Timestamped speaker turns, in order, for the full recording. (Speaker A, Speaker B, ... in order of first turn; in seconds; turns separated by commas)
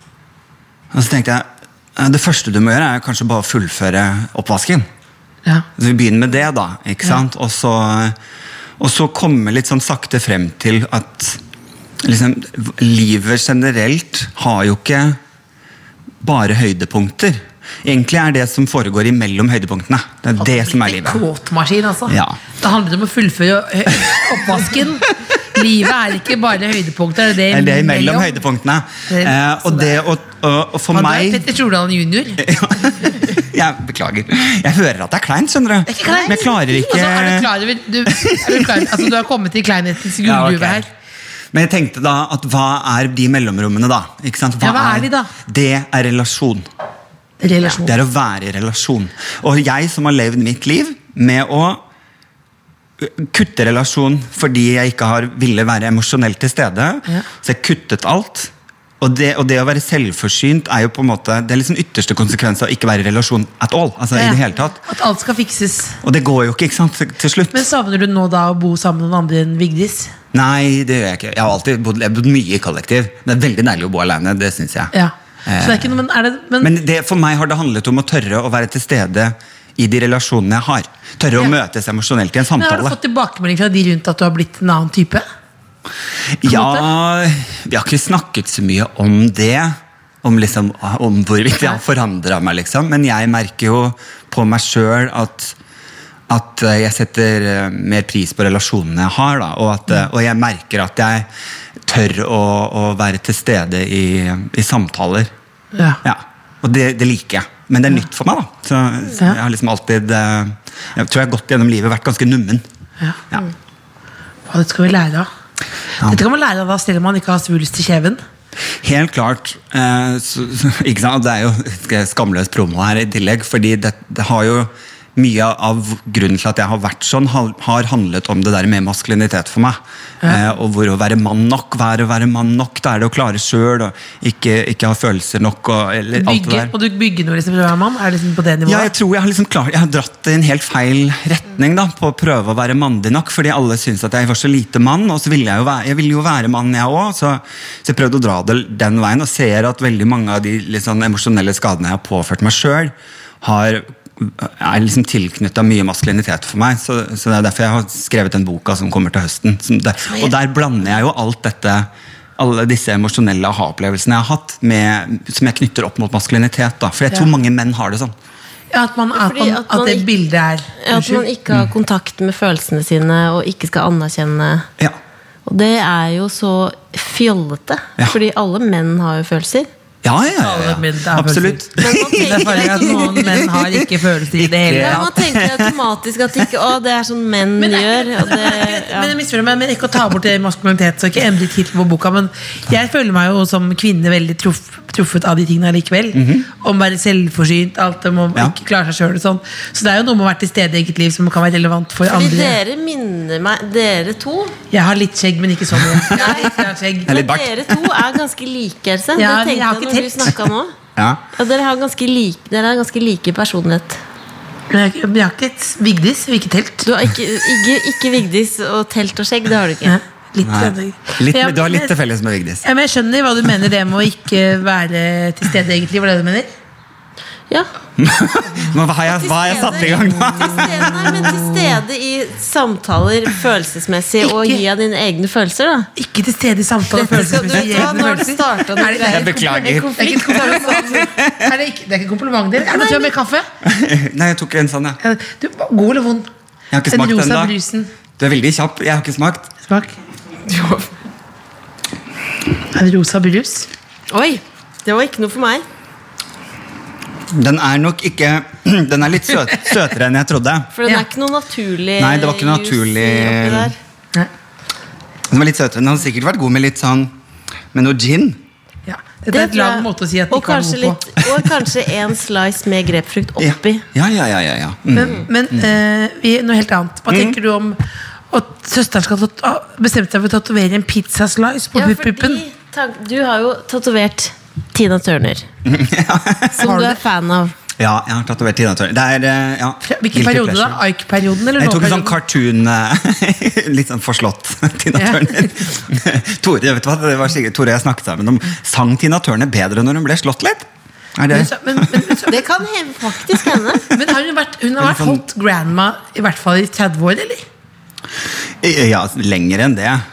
Speaker A: 0.9-4.9, Speaker A: 5.8-8.2, Speaker A: 8.8-11.4, Speaker A: 12.0-15.2, Speaker A: 16.2-21.2, Speaker B: 20.4-28.3, Speaker A: 22.1-22.4, Speaker A: 27.4-31.4, Speaker B: 29.1-29.9, Speaker B: 30.9-33.1, Speaker A: 32.4-37.5, Speaker B: 35.9-40.9, Speaker A: 38.1-39.1, Speaker A: 40.2-40.9, Speaker A: 41.5-46.6, Speaker B: 44.6-45.3, Speaker B: 47.4-48.0, Speaker A: 47.6-51.8, Speaker A: 53.0-64.8, Speaker B: 64.1-66.0, Speaker A: 66.0-67.7, Speaker B: 67.5-70.1, Speaker A: 70.3-74.9, Speaker B: 74.9-76.7, Speaker A: 75.5-76.0, Speaker A: 76.6-83.0, Speaker B: 82.6-85.2, Speaker A: 86.4-95.5, Speaker B: 86.5-86.8, Speaker A: 96.3-101.3, Speaker A: 101.8-105.3, Speaker B: 105.7-106.0, Speaker A: 106.0-112.6, Speaker B: 114.5-115.3, Speaker B: 116.0-118.2, Speaker A: 118.8-136.7, Speaker B: 130.2-130.5, Speaker B: 136.1-138.9, Speaker A: 138.6-168.1, Speaker B: 168.7-171.2, Speaker C: 169.1-170.1, Speaker C: 170.8-174.7, Speaker C: 175.4-179.7, Speaker A: 180.0-185.7, Speaker B: 180.4-185.1, Speaker C: 181.8-183.4, Speaker C: 184.7-189.1, Speaker B: 187.6-202.6, Speaker A: 196.1-196.5, Speaker C: 202.0-204.6, Speaker B: 204.7-207.2, Speaker A: 205.8-206.3, Speaker C: 206.1-210.7, Speaker A: 207.1-207.9, Speaker B: 209.2-210.3, Speaker A: 210.9-211.2, Speaker C: 211.3-214.0, Speaker B: 214.7-216.8, Speaker C: 216.8-220.0, Speaker B: 219.8-221.9, Speaker A: 220.4-222.6, Speaker B: 222.6-226.5, Speaker A: 228.0-231.4, Speaker C: 229.1-235.9, Speaker B: 230.8-231.3, Speaker B: 234.2-234.6, Speaker B: 236.0-243.4, Speaker C: 236.9-240.9, Speaker A: 239.1-241.5, Speaker C: 242.6-243.1, Speaker A: 243.6-245.0, Speaker B: 245.0-246.3, Speaker A: 246.7-247.5, Speaker B: 246.9-247.9, Speaker A: 248.2-249.5, Speaker B: 249.7-249.9, Speaker C: 250.4-250.9, Speaker B: 252.7-253.7, Speaker C: 254.1-255.6, Speaker A: 257.3-260.7, Speaker C: 260.7-263.8, Speaker A: 262.0-263.7, Speaker A: 265.3-267.1, Speaker A: 267.7-268.4, Speaker B: 268.9-271.0, Speaker C: 269.3-273.8, Speaker A: 273.4-275.7, Speaker B: 274.9-277.8, Speaker A: 277.1-277.4, Speaker B: 278.3-282.4, Speaker C: 281.7-285.4, Speaker A: 285.6-286.7, Speaker C: 286.5-287.5, Speaker B: 286.6-287.0, Speaker A: 287.8-290.8, Speaker B: 289.8-292.1, Speaker A: 291.6-302.1, Speaker B: 294.9-295.5, Speaker B: 301.3-302.5, Speaker C: 302.3-303.9, Speaker B: 303.9-307.4, Speaker A: 304.8-305.2, Speaker A: 308.6-310.0